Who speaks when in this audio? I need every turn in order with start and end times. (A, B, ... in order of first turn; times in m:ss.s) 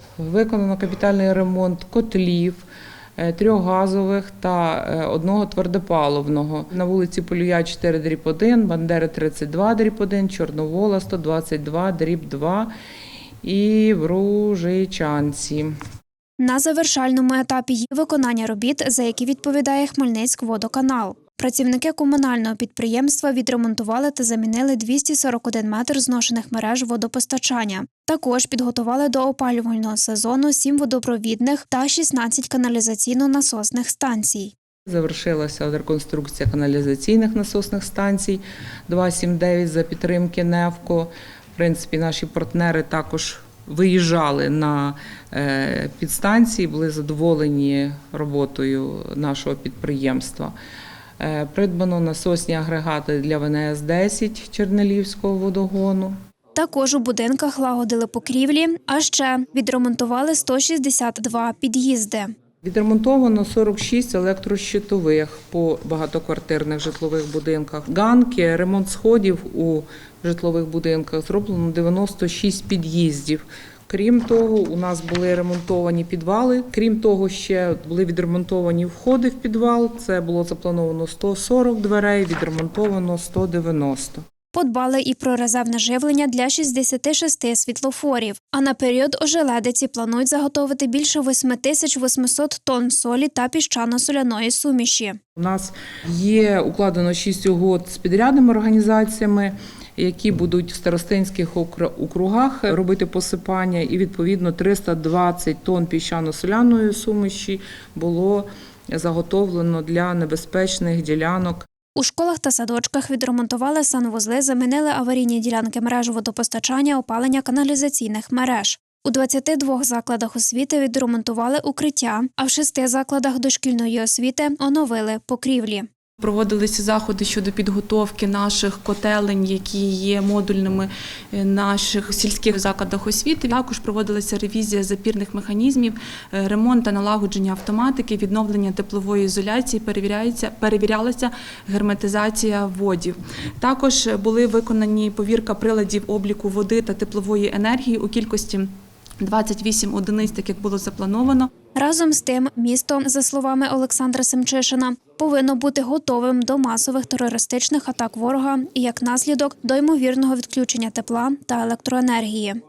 0:00.2-0:02.6 A
0:03.2-0:12.7 A
0:13.4-0:15.7 A
0:16.4-0:34.5 B
0:34.9-0:50.5 A
0:51.2-0:56.1 A
0:56.6-1:02.3 B
1:02.6-1:24.2 A
1:24.5-1:35.2 B
1:35.4-1:51.7 A
1:52.0-2:05.9 B
2:06.2-2:28.7 C
2:29.2-2:31.5 C
2:31.8-2:42.6 B